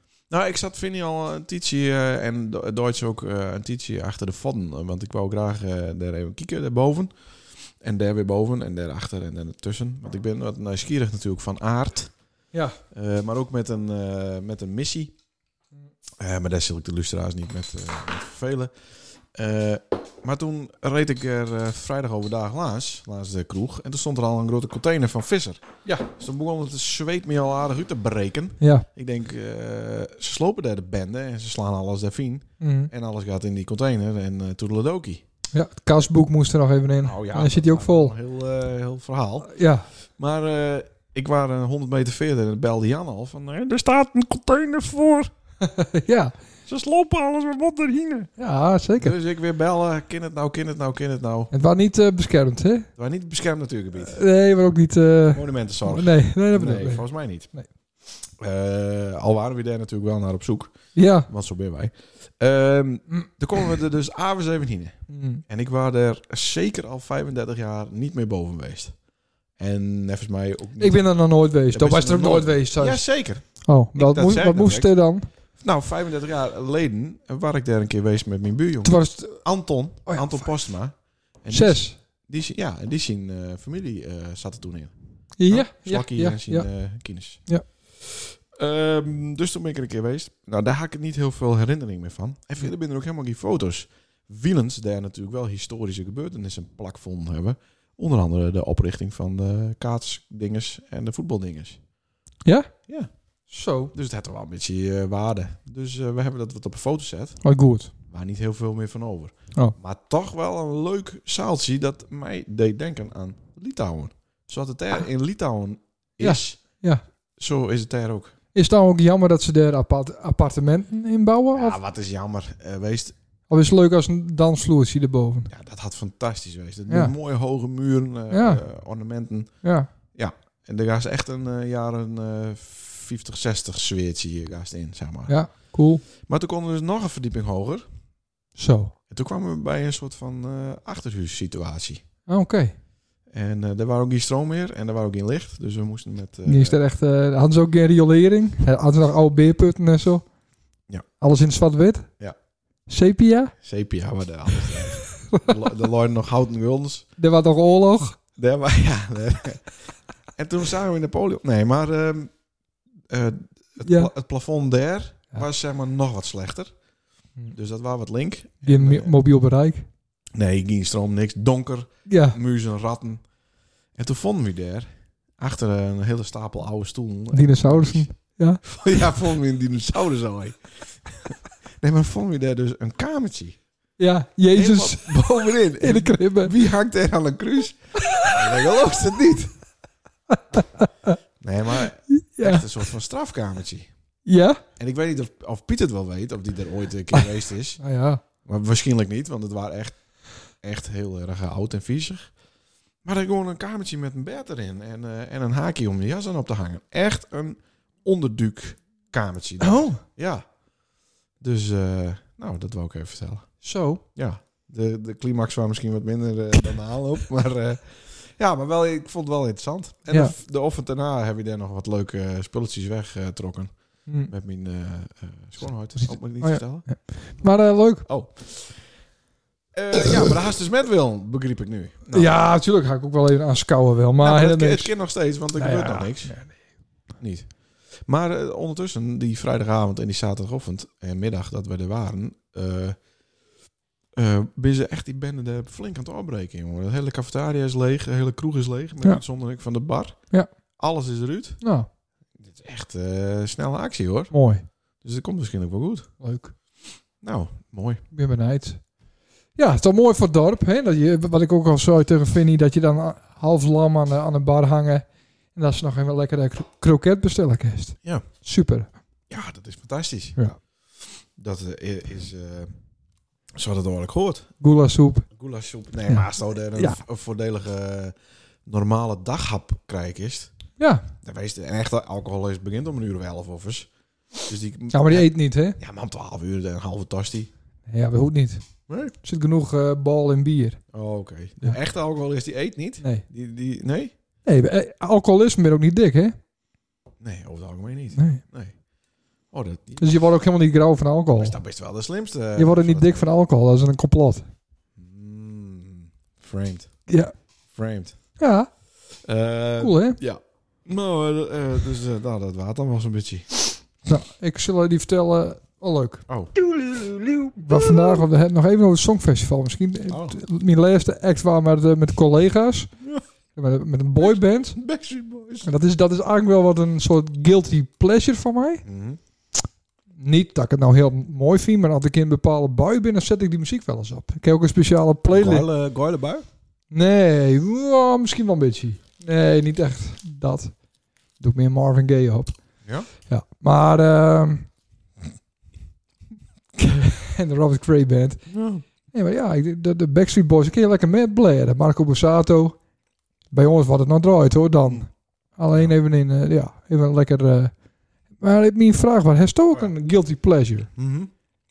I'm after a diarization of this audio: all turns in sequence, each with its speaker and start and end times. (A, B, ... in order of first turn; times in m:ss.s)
0:00.3-0:07.1 A
0:07.8-0:12.1 A
0:12.9-0:15.1 A
0:16.2-0:18.7 A
0:19.3-0:35.2 A
0:28.6-0:28.8 B
0:32.6-0:32.9 B
0:35.5-0:38.1 B
0:37.0-0:39.6 A
0:39.5-0:39.8 B
0:40.2-0:45.3 A
0:45.6-0:46.3 B
0:46.7-0:48.3 A
0:48.4-0:49.2 B
0:49.0-0:51.5 A
0:51.5-0:52.9 B
0:53.0-0:54.2 A
0:54.0-0:57.7 B
0:55.3-0:57.5 A
0:58.4-1:09.0 A
1:00.9-1:01.3 B
1:05.1-1:05.4 B
1:09.6-1:24.9 A
1:10.8-1:15.3 B
1:18.8-1:20.5 B
1:21.5-1:22.0 B
1:25.4-1:26.7 B
1:25.4-1:41.8 A
1:42.4-1:42.9 B
1:43.5-1:43.9 B
1:43.9-1:47.4 A
1:47.4-1:47.9 B
1:48.1-1:56.8 A
1:56.2-1:57.0 B
1:57.4-1:58.3 A
1:58.5-2:01.8 B
2:01.5-2:03.1 A
2:03.5-2:05.5 B
2:05.5-2:09.6 A
2:08.3-2:08.6 B
2:09.6-2:09.9 B
2:10.1-2:17.8 A
2:15.3-2:16.0 B
2:18.6-2:18.9 B
2:19.1-2:22.0 A
2:22.2-2:22.7 B
2:23.3-2:26.8 A
2:26.4-2:30.3 B
2:31.2-2:32.1 B
2:32.9-2:33.5 B
2:33.6-2:37.1 A
2:37.2-2:38.2 B
2:38.4-2:39.8 A
2:40.4-2:42.3 A
2:43.1-2:46.7 A
2:43.8-2:44.1 B
2:47.5-2:49.1 A
2:48.6-2:49.8 B
2:50.3-2:53.2 A
2:52.1-2:52.4 B
2:53.9-2:58.1 A
2:57.3-2:58.6 B
2:58.6-3:03.6 A
3:04.0-3:06.5 B
3:04.5-3:09.5 A
3:10.3-3:11.2 B
3:11.4-3:13.9 A
3:12.1-3:12.7 B
3:14.2-3:14.6 B
3:14.8-3:17.8 A
3:17.8-3:18.2 B
3:18.4-3:22.3 A
3:23.0-3:30.5 A
3:29.6-3:30.0 B
3:31.4-3:47.5 A
3:33.6-3:34.0 B
3:44.1-3:44.3 B
3:46.0-3:48.1 B
3:48.0-3:48.9 A
3:49.7-3:52.3 A
3:52.1-3:54.9 B
3:54.2-3:56.4 A
3:55.5-3:56.5 B
3:57.2-3:57.5 A
3:58.0-4:03.0 A
4:04.1-4:11.6 A
4:11.6-4:11.9 B
4:12.4-4:14.3 A
4:14.3-4:14.6 B
4:15.0-4:16.1 A
4:16.2-4:16.5 B
4:17.2-4:18.0 A
4:18.1-4:18.9 B
4:19.6-4:28.9 B
4:29.3-4:32.7 A
4:33.5-4:34.5 A
4:34.6-4:35.3 B
4:35.3-4:38.1 A
4:36.1-4:37.0 B
4:38.6-4:40.5 A
4:40.8-4:41.0 B
4:41.2-4:43.9 A
4:44.4-4:47.5 A
4:44.9-4:45.8 B
4:47.9-4:50.8 B
4:48.9-4:49.1 A
4:50.9-4:54.1 A
4:54.4-4:56.4 B
4:57.2-4:58.7 A
4:58.2-4:58.4 B
4:59.5-5:00.1 A
5:00.0-5:01.6 B
5:01.4-5:03.3 A
5:02.6-5:04.4 B
5:05.0-5:07.0 A
5:07.1-5:07.3 B
5:07.7-5:08.2 A
5:08.4-5:08.7 B
5:09.2-5:13.8 A
5:09.8-5:10.2 B
5:14.0-5:16.2 B
5:16.3-5:16.5 A
5:17.6-5:22.9 B
5:20.1-5:20.4 A
5:23.5-5:24.8 B
5:24.2-5:25.7 A
5:25.6-5:28.8 B
5:28.8-5:29.2 A
5:30.2-5:35.7 B
5:35.3-5:36.4 A
5:36.9-5:40.8 B
5:41.4-5:44.7 B
5:46.8-5:52.8 B
5:48.5-5:48.8 A
5:53.5-5:57.7 B
5:58.4-6:00.9 B
6:01.0-6:01.3 A